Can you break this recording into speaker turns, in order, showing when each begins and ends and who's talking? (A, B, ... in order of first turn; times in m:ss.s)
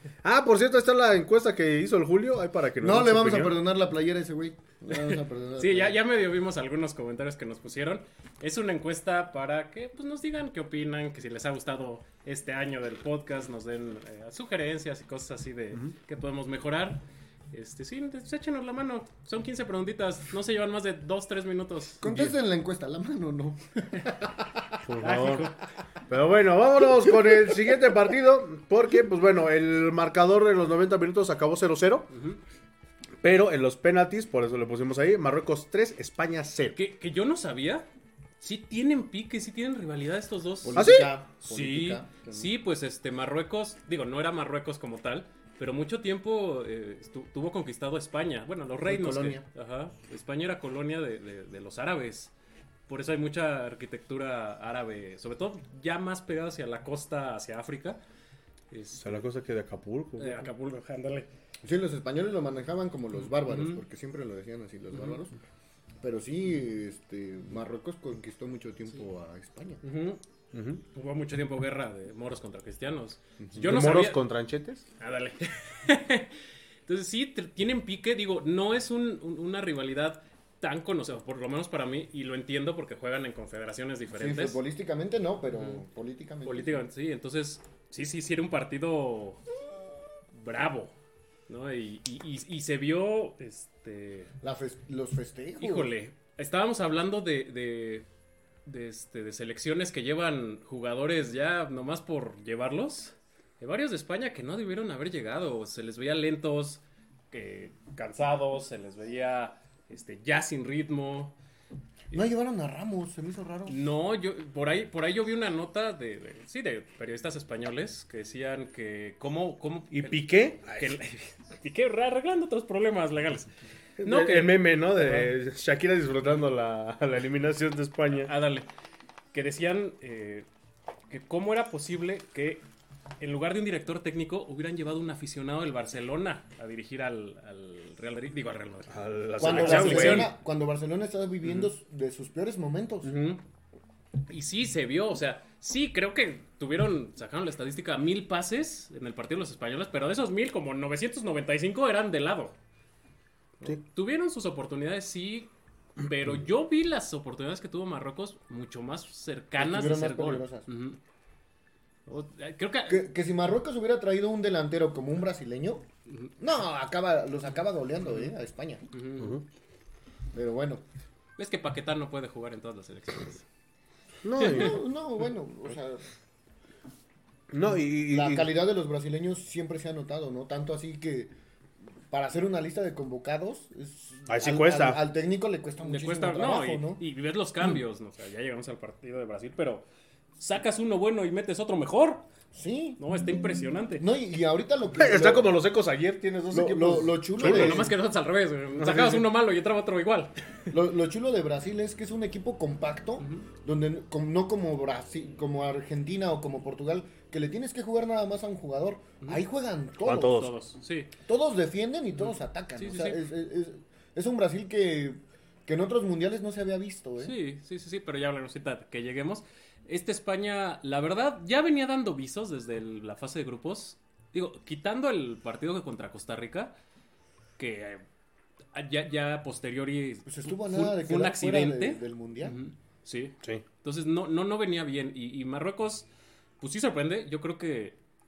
0:00.2-0:03.6 A
0:02.8-0:06.0 B
0:04.9-0:22.0 C
0:22.0-0:24.8 B
0:22.0-0:22.3 A
0:24.8-0:25.5 A
0:25.0-0:25.6 C
0:26.1-0:32.1 A
0:32.1-0:32.4 C
0:33.2-0:36.8 A
0:36.7-0:37.9 C
0:38.4-0:40.8 C
0:40.6-0:42.5 B
0:40.8-0:41.1 A
0:41.4-0:52.3 C
0:48.8-0:49.4 B
0:52.9-0:58.0 C
0:58.7-0:59.3 C
0:59.0-1:00.5 A
1:00.2-1:01.3 C
1:01.6-1:05.4 B
1:03.2-1:03.8 C
1:06.0-1:09.8 B
1:09.8-1:10.2 C
1:10.5-1:10.8 A
1:10.9-1:14.2 C
1:13.4-1:13.7 B
1:13.6-1:14.8 A
1:15.0-1:16.3 C
1:16.9-1:24.6 C
1:24.1-1:26.8 B
1:25.5-1:25.8 C
1:26.4-1:29.4 C
1:30.3-1:30.9 C
1:31.5-1:34.3 C
1:34.4-1:35.9 B
1:35.6-1:38.0 C
1:38.6-1:51.3 C
1:52.1-1:53.8 B
1:53.7-2:05.3 C
1:59.9-2:00.9 A
2:04.0-2:08.3 A
2:08.1-2:08.7 C
2:09.3-2:10.5 C
2:11.1-2:12.6 C
2:13.2-2:20.3 C
2:18.9-2:20.3 A
2:19.4-2:23.1 B
2:21.4-2:21.7 C
2:23.0-2:23.4 C
2:24.3-2:32.6 C
2:33.6-2:41.0 C
2:39.6-2:40.7 B
2:42.1-2:43.1 C
2:42.9-2:45.9 B
2:46.4-2:48.8 B
2:48.9-2:49.4 C
2:49.2-2:49.4 A
2:50.3-2:50.8 B
2:51.4-2:53.4 C
2:54.2-2:54.8 A
2:54.4-2:54.8 C
2:54.4-2:56.0 B
2:57.5-2:58.5 A
2:58.1-3:01.3 B
3:02.1-3:07.0 B
3:04.3-3:05.0 A
3:05.8-3:09.8 C
3:10.4-3:12.2 C
3:12.5-3:13.0 B
3:13.0-3:14.0 C
3:14.0-3:15.5 B
3:15.0-3:17.9 A
3:16.5-3:17.9 B
3:17.4-3:20.3 C
3:18.8-3:19.2 A
3:20.7-3:30.4 B
3:23.2-3:23.4 C
3:30.0-3:30.5 A
3:30.2-3:31.1 C
3:31.2-3:37.4 B
3:32.2-3:33.2 C
3:37.2-3:46.7 C
3:47.6-3:48.0 C
3:48.7-3:56.1 C
3:50.2-3:52.6 B
3:56.6-3:58.0 C